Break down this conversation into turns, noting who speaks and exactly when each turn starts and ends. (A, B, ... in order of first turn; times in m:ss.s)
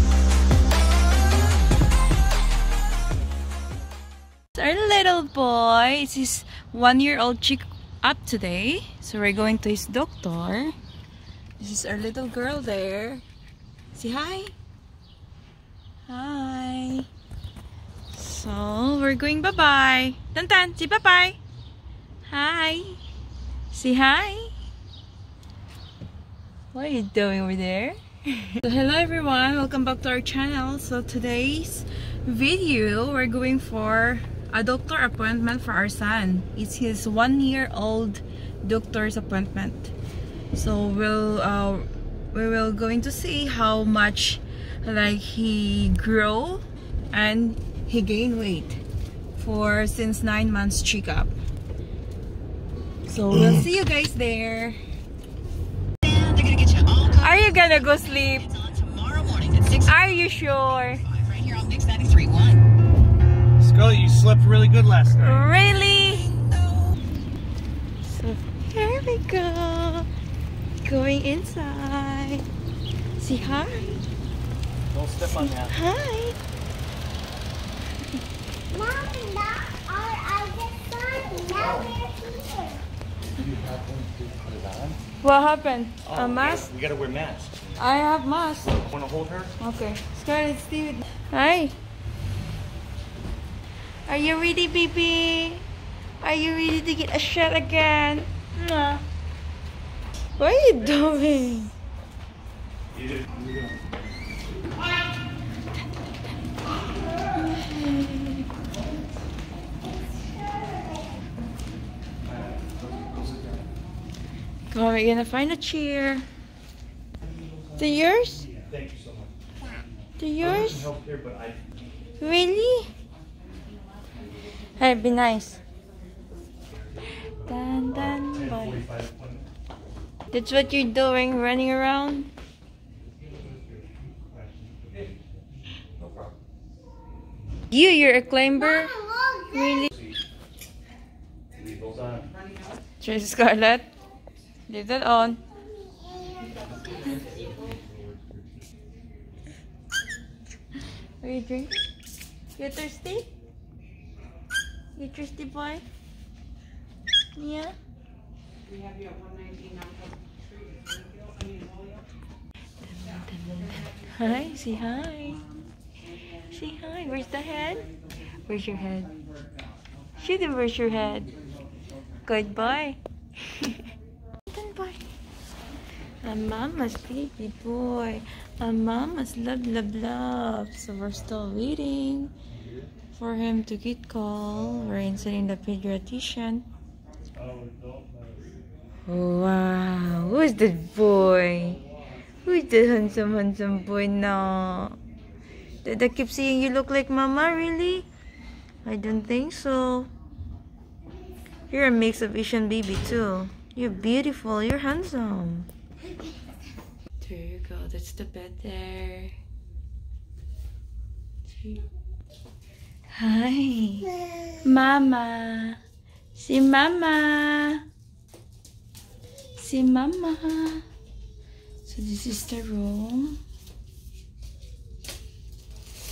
0:04.5-0:10.7 A
0:11.6-0:13.2 A
0:13.9-0:14.5 A
0:16.0-0:17.1 A
0:18.1-0:21.4 A
0:22.3-0:23.0 A
0:23.7-0:24.5 A
0:26.7-0:39.9 A
0:40.5-0:48.8 A
0:49.4-0:51.3 A
0:53.1-0:54.8 A
0:56.9-0:58.6 A
0:59.4-1:01.0 A
1:03.6-1:05.3 B
1:05.2-1:06.4 A
1:08.0-1:10.1 A
1:10.8-1:12.4 A
1:13.2-1:14.0 A
1:14.9-1:15.7 B
1:15.3-1:16.4 A
1:18.7-1:22.8 C
1:23.4-1:25.0 B
1:25.2-1:26.7 A
1:26.1-1:27.7 B
1:27.8-1:28.9 A
1:28.9-1:29.5 B
1:29.6-1:31.8 A
1:34.1-1:35.6 A
1:36.2-1:39.0 A
1:40.4-1:41.7 A
1:47.3-1:48.5 A
1:52.9-1:53.4 B
1:54.7-1:56.2 A
1:57.8-1:58.5 A
1:58.5-1:59.3 B
2:00.2-2:00.9 A
2:00.4-2:01.6 B
2:02.2-2:02.9 A
2:04.8-2:05.6 A
2:07.4-2:08.9 A
2:10.3-2:12.3 A
2:16.0-2:16.3 B
2:17.7-2:19.9 A
2:21.6-2:22.2 B
2:23.0-2:23.9 A
2:24.7-2:25.4 A
2:31.2-2:31.8 A
2:32.6-2:33.3 A
2:35.0-2:35.8 A
2:37.3-2:37.7 A
2:42.8-2:45.4 A
2:46.5-2:47.9 A
2:48.5-2:49.1 A
2:50.2-2:51.3 A
2:52.2-2:53.0 A
2:54.5-2:55.0 A
2:56.2-3:02.3 A
3:03.1-3:06.6 A
3:09.0-3:11.8 A
3:12.4-3:15.0 A
3:15.8-3:18.1 A
3:18.8-3:20.1 A
3:21.7-3:25.7 A
3:27.2-3:29.4 A
3:31.5-3:31.8 A
3:33.1-3:34.1 A
3:34.6-3:35.8 A
3:36.3-3:37.8 A
3:39.6-3:40.8 A
3:41.8-3:43.4 A